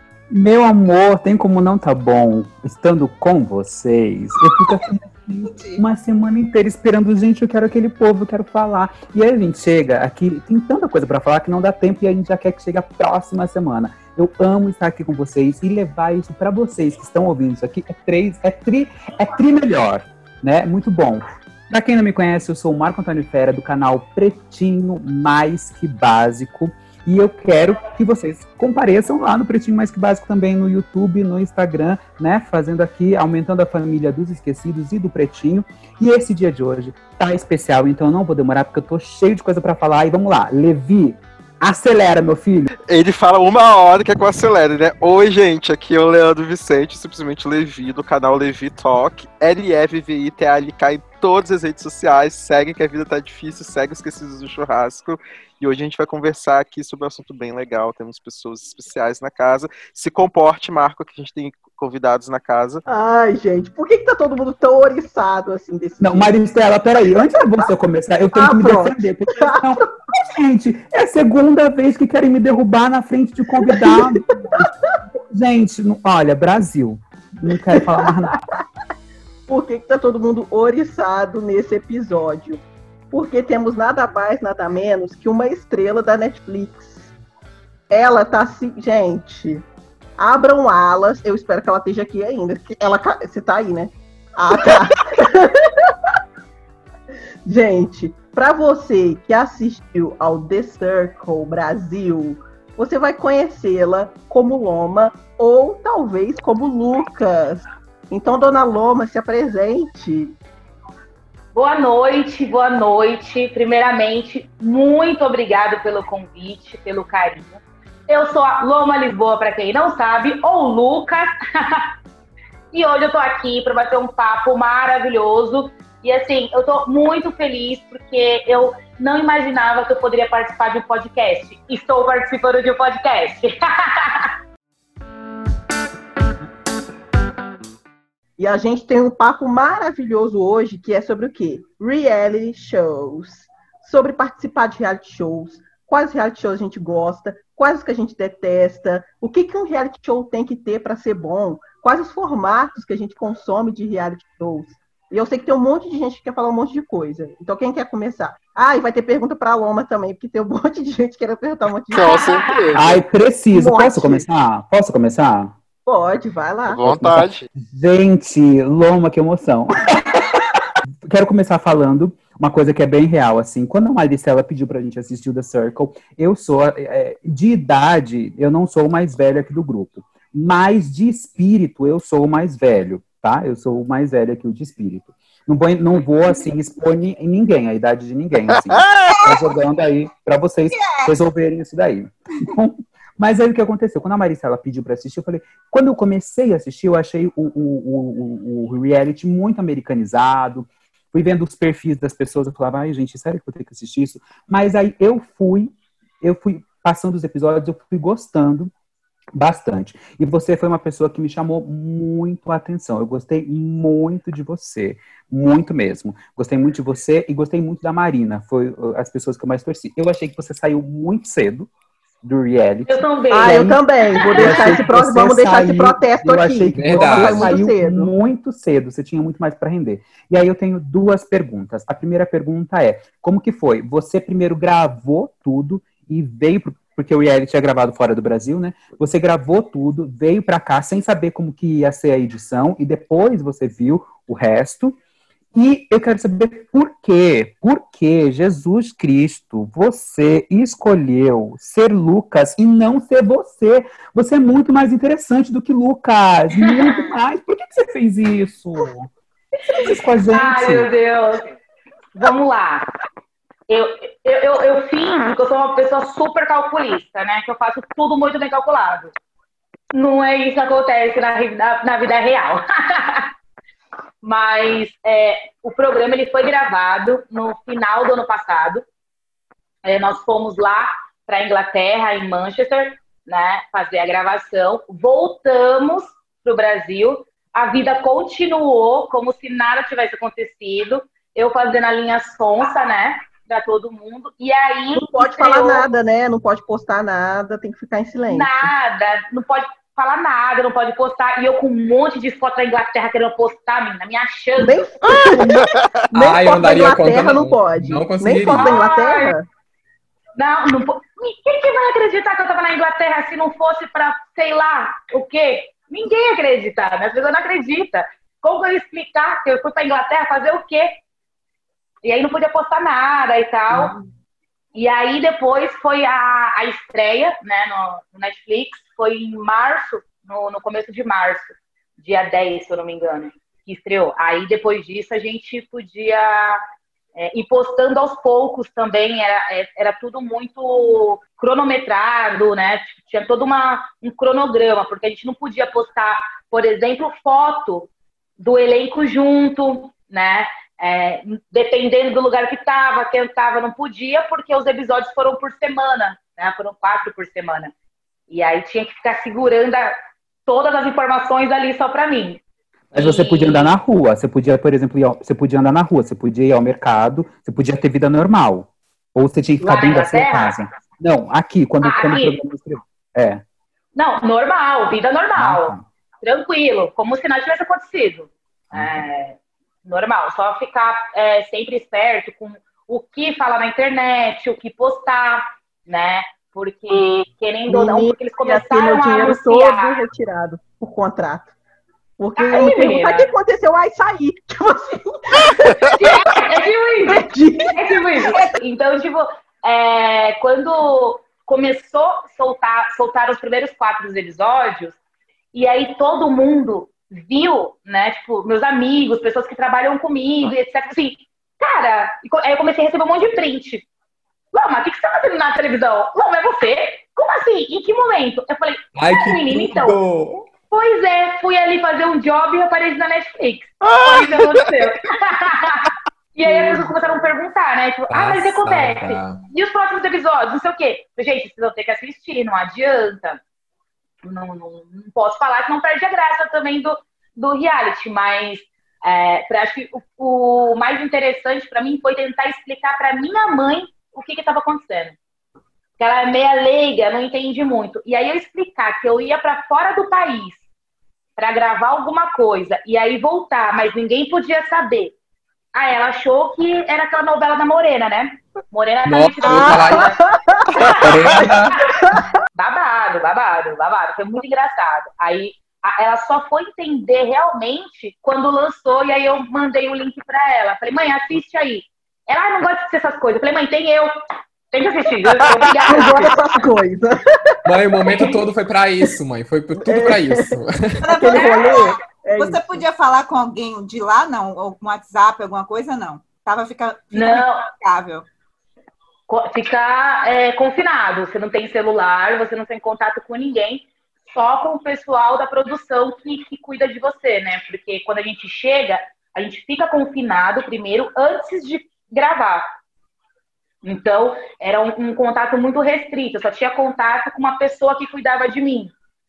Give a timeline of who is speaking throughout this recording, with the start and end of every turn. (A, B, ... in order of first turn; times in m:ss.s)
0:00.3-0:42.7 A
0:04.5-0:04.8 B
0:05.4-0:05.8 B
0:42.9-1:02.8 C
1:02.8-1:06.3 D
1:06.0-1:14.7 A
1:08.3-1:09.9 D
1:13.6-1:14.7 D
1:15.3-1:18.4 A
1:17.5-1:18.4 D
1:19.5-1:27.1 D
1:27.9-1:29.6 D
1:30.2-1:35.9 D
1:37.4-1:50.3 D
1:51.5-2:01.8 E
2:02.7-2:14.3 E
2:18.4-2:42.5 D
2:41.9-2:43.0 C
2:42.1-2:42.6 E
2:42.7-2:45.5 A
2:43.5-2:44.2 D
2:45.8-2:47.2 D
2:46.7-2:47.5 C
2:46.9-2:50.5 A
2:51.0-3:28.7 A
3:08.5-3:09.3 C
3:09.1-3:09.4 B
3:10.7-3:11.1 B
3:29.3-3:41.7 A
3:42.2-4:05.0 A
3:42.8-3:44.8 E
3:43.3-3:48.1 D
3:46.8-3:47.5 F
4:05.5-4:19.1 A
4:16.6-4:17.0 E
4:19.7-4:20.9 A
4:19.7-4:21.4 E
4:22.1-4:22.8 E
4:23.7-4:29.1 E
4:29.9-4:33.3 E
4:34.2-4:38.8 E
4:39.8-4:55.8 E
4:55.0-4:58.7 D
4:58.3-5:04.9 E
5:04.6-5:09.4 D
5:05.0-5:06.0 C
5:06.1-5:08.8 F
5:08.5-5:09.4 E
5:10.4-5:20.9 E
5:22.0-5:23.9 E
5:24.7-5:36.6 E
5:37.2-5:47.9 E
5:48.4-5:57.7 E
5:58.3-6:02.4 E
6:02.9-6:13.4 A
6:02.9-6:03.7 E
6:09.6-6:10.6 E
6:11.8-6:12.4 E
6:13.9-6:30.0 E
6:15.4-6:15.8 A
6:18.7-6:19.1 A
6:27.7-6:31.5 D
6:32.2-6:36.0 D
6:32.4-6:33.3 E
6:35.5-6:36.0 C
6:36.0-6:45.0 E
6:37.1-6:37.8 D
6:38.2-6:38.6 B
6:45.5-6:53.8 E
6:54.5-7:00.0 E
6:59.0-7:00.4 F
7:00.7-7:13.4 E
7:03.8-7:04.7 C
7:06.4-7:07.2 D
7:08.1-7:09.4 F
7:14.2-7:25.2 E
7:26.0-7:30.6 E
7:31.4-7:35.1 E
7:35.7-7:40.2 E
7:39.0-7:40.1 F
7:39.4-7:42.3 D
7:40.7-7:41.5 E
7:40.8-7:41.8 F
7:42.5-7:54.1 E
7:54.7-7:56.2 E
7:55.9-7:58.3 D
7:57.6-8:01.0 F
7:59.8-8:00.5 D
8:01.0-8:08.2 B
8:01.0-8:02.8 D
8:07.1-8:07.7 E
8:09.3-8:22.6 E
8:23.8-8:28.9 E